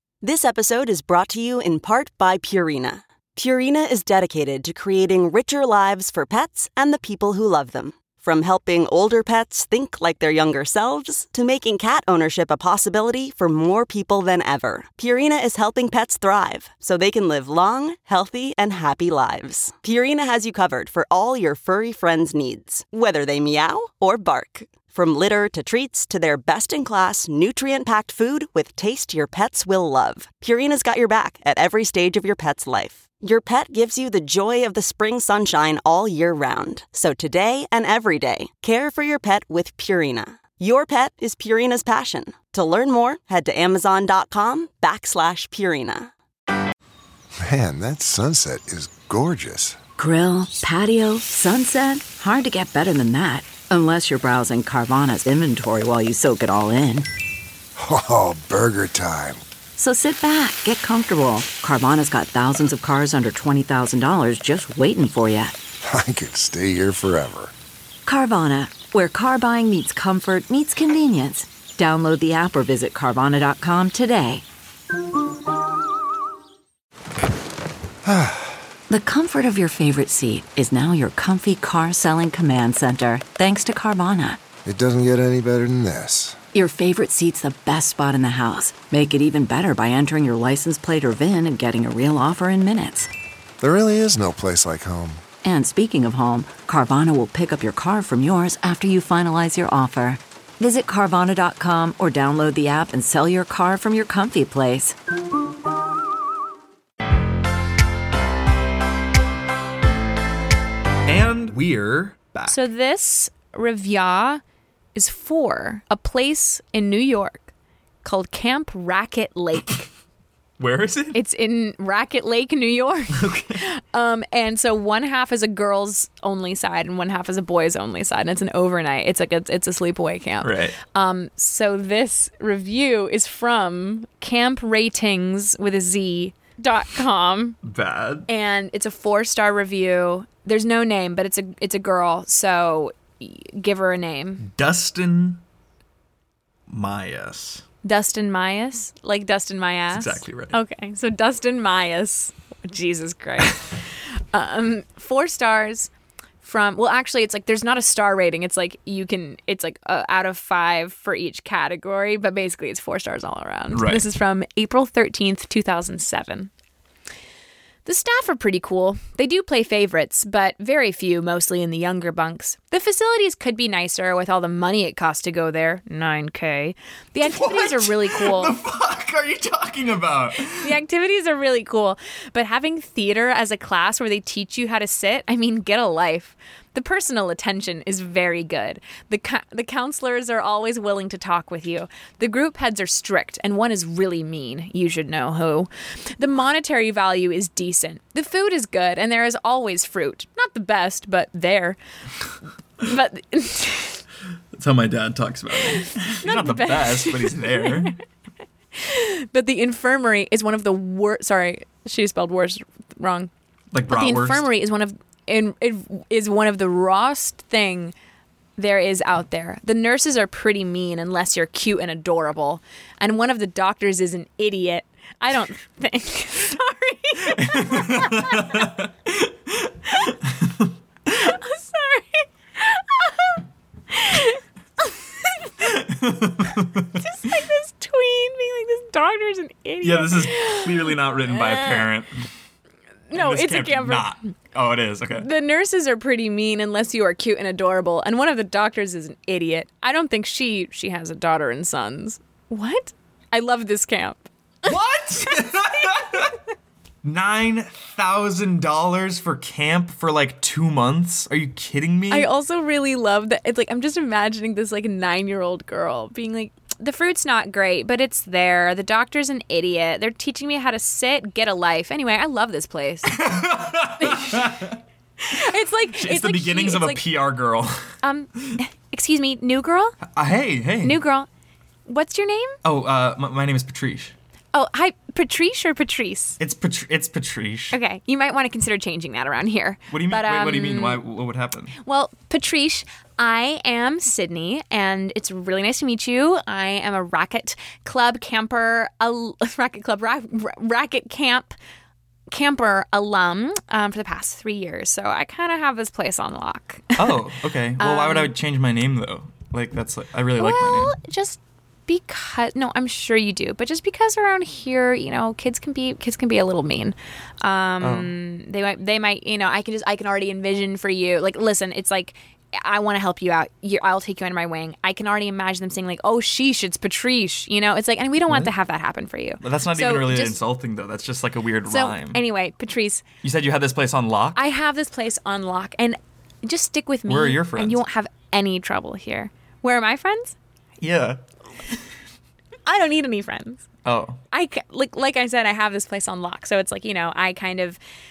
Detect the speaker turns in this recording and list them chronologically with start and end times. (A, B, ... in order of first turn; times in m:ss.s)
0:00.2-0:46.1 A
0:47.4-0:49.8 B
0:50.0-0:57.1 C
0:57.8-0:59.4 B
0:59.8-1:05.6 C
1:05.8-1:07.5 B
1:08.1-1:14.4 C
1:18.0-1:18.6 B
1:18.9-1:24.4 C
1:24.6-1:26.4 B
1:26.5-1:33.1 C
1:33.6-1:35.2 B
1:35.4-1:45.0 C
1:51.1-1:52.6 D
1:52.5-1:54.4 E
1:55.0-1:57.5 E
1:58.0-1:59.9 E
2:00.6-2:01.2 D
2:01.1-2:17.6 E
2:03.1-2:03.6 D
2:10.4-2:10.8 D
2:17.6-2:18.3 D
2:18.3-2:24.4 E
2:24.4-2:25.4 D
2:26.7-2:27.6 D
2:27.8-2:35.9 E
2:29.9-2:30.6 D
2:36.4-2:46.5 E
2:43.7-2:44.0 D
2:47.9-2:58.6 E
2:57.2-3:00.8 D
3:00.5-3:21.8 E
3:22.8-3:24.0 E
3:24.5-3:28.0 D
3:25.8-3:27.9 E
3:28.8-3:33.3 E
3:33.7-3:34.5 D
3:33.9-3:37.9 E
3:38.6-3:48.7 E
3:47.4-3:50.6 D
3:51.1-3:55.5 E
3:55.6-3:57.0 D
3:57.0-4:01.9 E
3:59.8-4:02.2 D
4:03.1-4:04.1 E
4:03.1-4:05.3 D
4:05.2-4:14.7 E
4:14.6-4:16.4 D
4:15.3-4:15.9 E
4:17.0-4:22.3 D
4:22.1-4:33.2 E
4:33.1-4:34.8 D
4:34.0-4:34.6 E
4:35.2-4:37.0 E
4:36.0-4:37.8 D
4:38.0-4:40.0 E
4:40.1-4:41.0 D
4:40.8-4:41.3 E
4:41.9-4:42.6 E
4:42.6-4:44.1 D
4:44.5-4:46.4 E
4:46.4-4:47.8 D
4:47.7-4:51.0 E
4:49.9-4:51.8 D
4:51.8-5:01.6 E
5:02.3-5:07.2 E
5:07.0-5:10.9 D
5:07.8-5:08.3 E
5:10.4-5:30.4 E
5:17.8-5:18.1 D
5:28.3-5:28.5 D
5:29.4-5:32.2 D
5:31.7-5:33.0 E
5:33.2-5:34.4 D
5:34.4-5:40.4 E
5:37.1-5:37.8 D
5:40.8-5:41.2 D
5:42.7-5:43.6 E
5:43.8-5:44.2 D
5:44.3-5:47.8 E